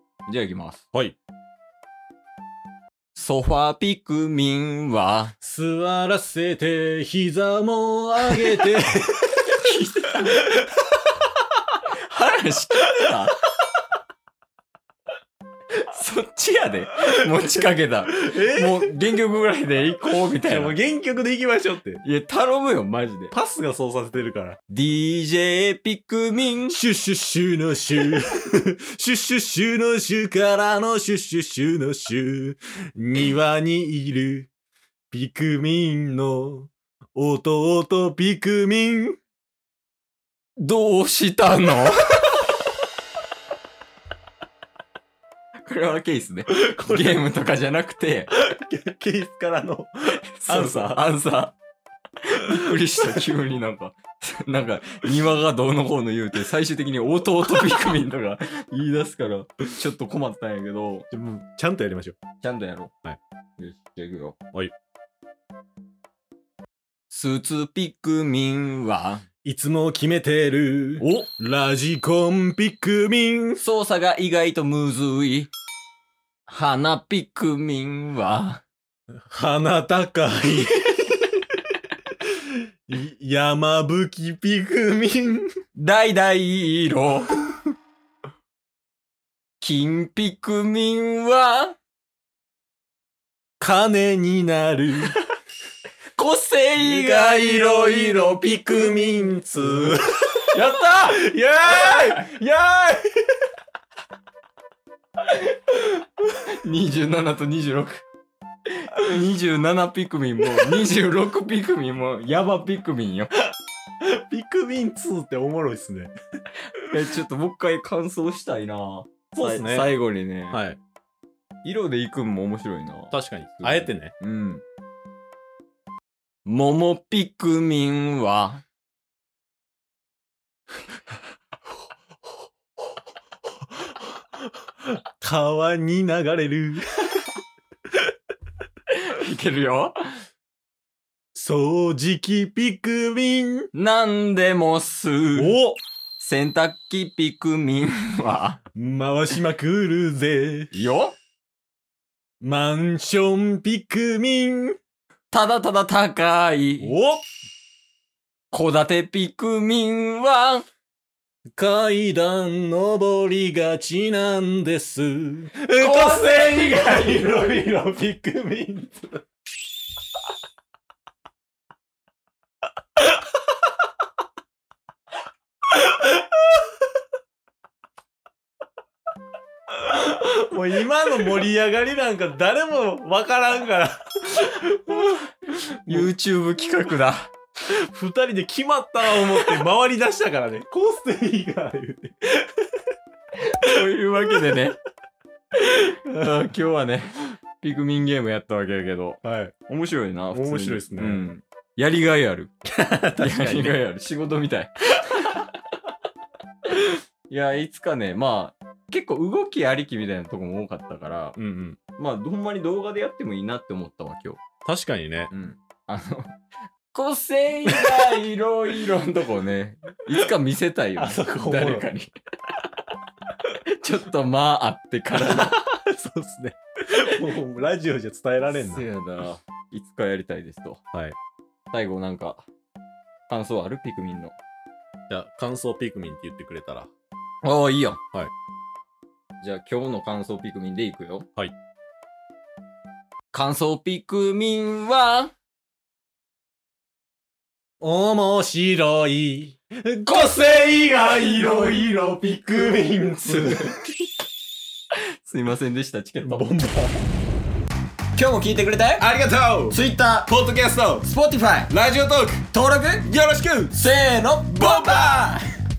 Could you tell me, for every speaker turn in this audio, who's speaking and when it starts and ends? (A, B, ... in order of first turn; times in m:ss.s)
0:00.3-0:00.8 A
0:03.1-0:05.3 A
0:05.4-0:09.6 B
0:09.3-0:10.4 A
0:10.2-0:10.6 B
0:11.9-0:13.4 A
0:15.7-0:20.8 A
0:18.2-0:19.2 B
0:20.4-0:22.0 B
0:22.0-0:23.3 A
0:23.3-0:24.6 B
0:24.7-0:26.8 A
0:26.7-0:34.5 B
0:35.1-0:39.2 B
0:40.6-0:42.4 A
0:45.6-0:48.3 A
0:46.5-0:47.2 B
0:48.4-0:51.0 B
0:50.4-0:51.5 A
0:52.2-1:01.1 A
1:01.1-1:02.2 B
1:02.4-1:02.9 A
1:03.6-1:04.4 A
1:07.1-1:09.2 A
1:09.4-1:13.6 B
1:11.0-1:11.3 A
1:13.6-1:15.5 A
1:16.5-1:18.6 A
1:19.3-1:20.9 B
1:20.9-1:21.2 A
1:22.2-1:25.5 B
1:25.8-1:27.4 A
1:29.6-1:31.8 A
1:33.6-1:35.2 B
1:36.1-1:39.0 A
1:36.8-1:40.4 B
1:40.3-1:42.3 A
1:41.1-1:43.4 B
1:45.2-1:48.0 A
1:48.7-1:53.3 A
1:54.0-1:56.1 B
1:56.8-2:00.6 A
1:59.3-1:59.9 B
2:00.5-2:00.8 B
2:01.6-2:04.6 A
2:03.1-2:04.1 B
2:06.4-2:08.6 A
2:13.8-2:16.9 B
2:18.9-2:20.2 A
2:21.3-2:23.7 B
2:23.7-2:25.6 A
2:25.4-2:25.8 B
2:26.2-2:28.6 A
2:28.7-2:30.7 B
2:30.7-2:31.2 A
2:32.4-2:34.8 B
2:35.3-2:36.9 A
2:36.8-2:37.2 B
2:38.5-2:40.6 A
2:41.6-2:49.2 B
2:45.8-2:47.6 A
2:55.7-2:56.2 B
2:59.7-3:06.1 B
3:05.8-3:07.3 A
3:07.7-3:12.8 B
3:13.4-3:14.8 A
3:15.6-3:22.5 A
3:19.2-3:19.5 B
3:20.3-3:21.3 B
3:22.7-3:23.8 B
3:23.2-3:25.5 A
3:26.7-3:31.4 A
3:31.4-3:31.8 B
3:32.0-3:34.4 A
3:34.7-3:35.3 B
3:35.3-3:36.4 A
3:36.9-3:42.6 A
3:41.0-3:41.9 B
3:43.8-3:45.6 A
3:45.2-3:48.8 B
3:48.5-3:50.8 A
3:51.7-3:52.4 A
3:53.3-3:54.3 A
3:55.1-3:56.9 B
3:57.4-3:58.0 A
3:59.4-4:01.2 A
4:03.3-4:05.3 A
4:07.8-4:13.8 B
4:10.1-4:13.8 A
4:14.9-4:16.5 A
4:16.2-4:17.0 B
4:18.2-4:19.1 A
4:19.0-4:21.0 B
4:19.7-4:21.8 A
4:21.7-4:22.4 B
4:22.4-4:23.1 A
4:23.1-4:23.7 B
4:23.6-4:25.4 A
4:24.6-4:25.3 B